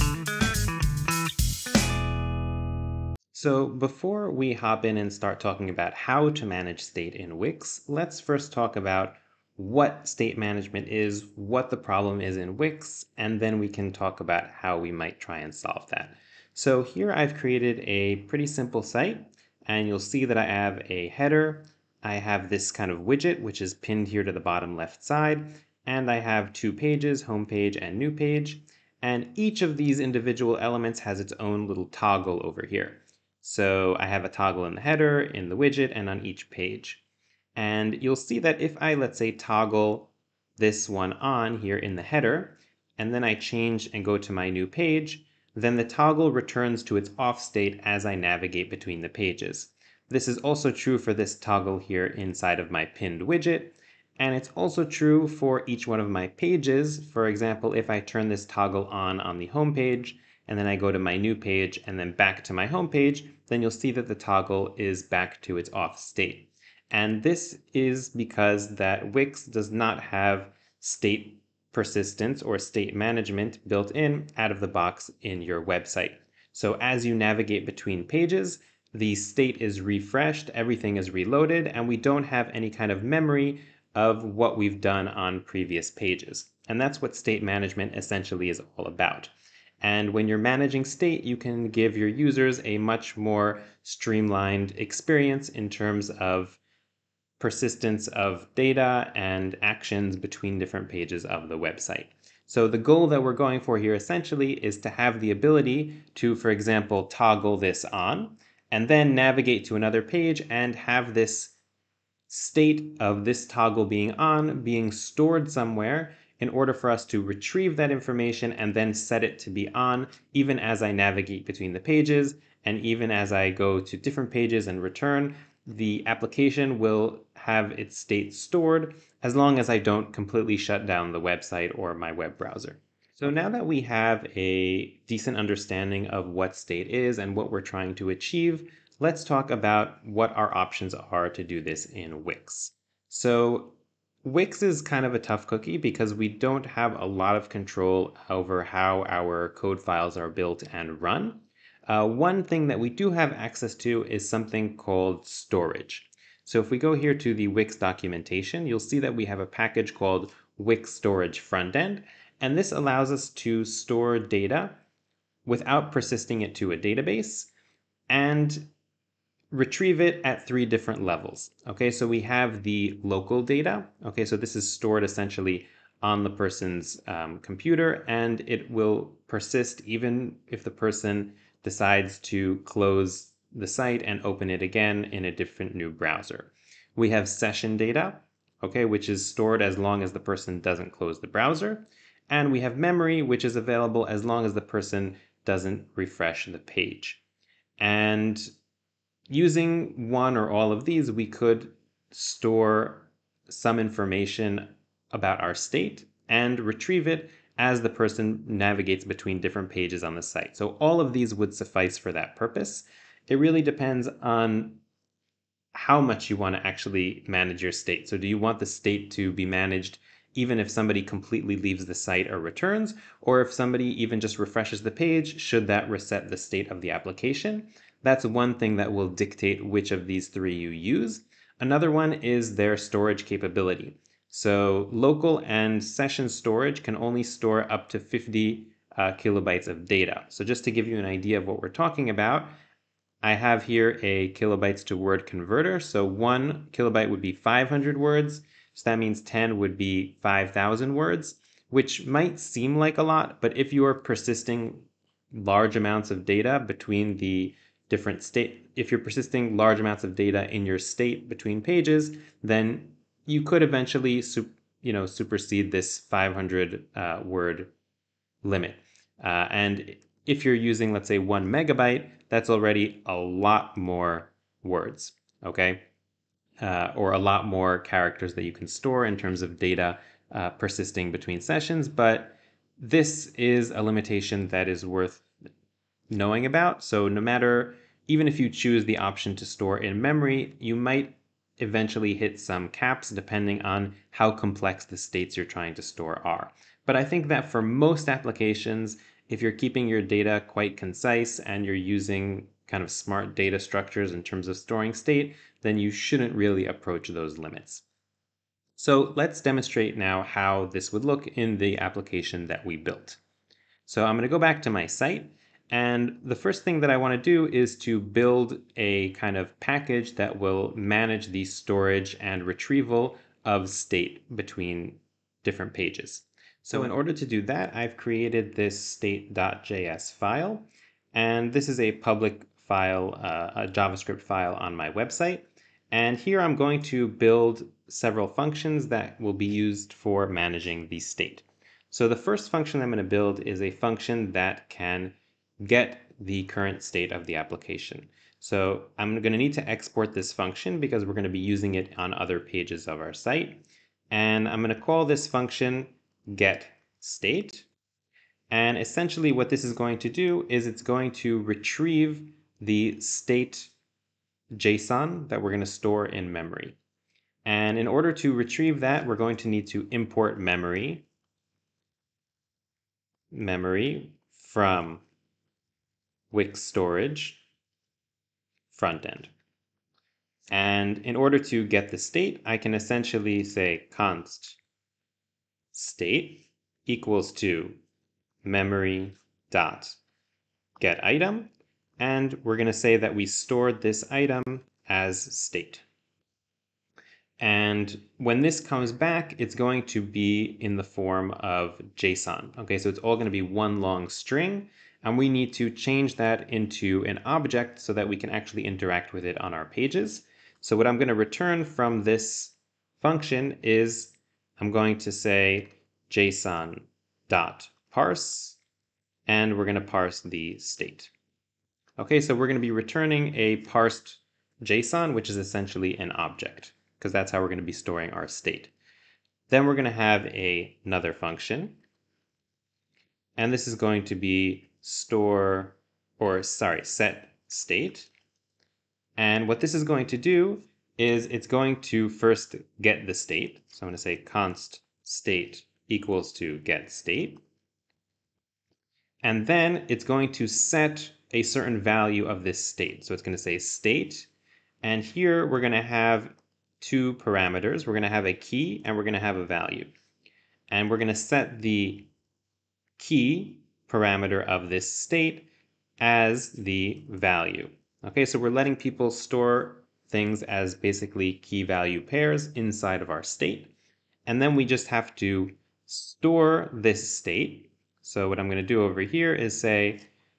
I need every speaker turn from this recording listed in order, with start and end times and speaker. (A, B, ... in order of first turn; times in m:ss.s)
0:03.3-0:37.0 A
0:37.6-1:36.6 A
1:37.4-1:51.6 A
1:52.3-2:44.8 A
2:45.5-2:47.5 A
2:48.1-2:48.7 A
2:49.5-3:17.2 A
3:17.8-3:18.5 A
3:19.3-3:34.8 A
3:35.7-4:02.5 A
4:03.2-4:27.7 A
4:28.4-4:35.8 A
4:36.6-4:45.3 A
4:46.1-5:07.8 A
5:08.8-5:13.2 A
5:13.9-5:57.7 A
5:58.5-6:03.7 A
6:04.5-6:06.8 A
6:07.4-6:11.1 A
6:13.3-6:15.0 A
6:16.3-6:17.4 A
6:18.7-6:19.3 A
6:20.5-6:24.6 A
6:25.7-6:27.8 A
6:28.4-6:30.0 A
6:30.8-6:35.8 A
6:37.4-6:58.6 A
6:59.3-7:01.1 A
7:02.0-7:08.7 A
7:09.5-7:11.8 A
7:13.4-7:18.1 A
7:19.2-7:27.4 A
7:29.2-7:34.3 A
7:34.8-7:39.9 A
7:40.7-7:42.1 A
7:43.0-7:45.5 A
7:46.0-7:53.7 A
7:54.3-8:00.0 A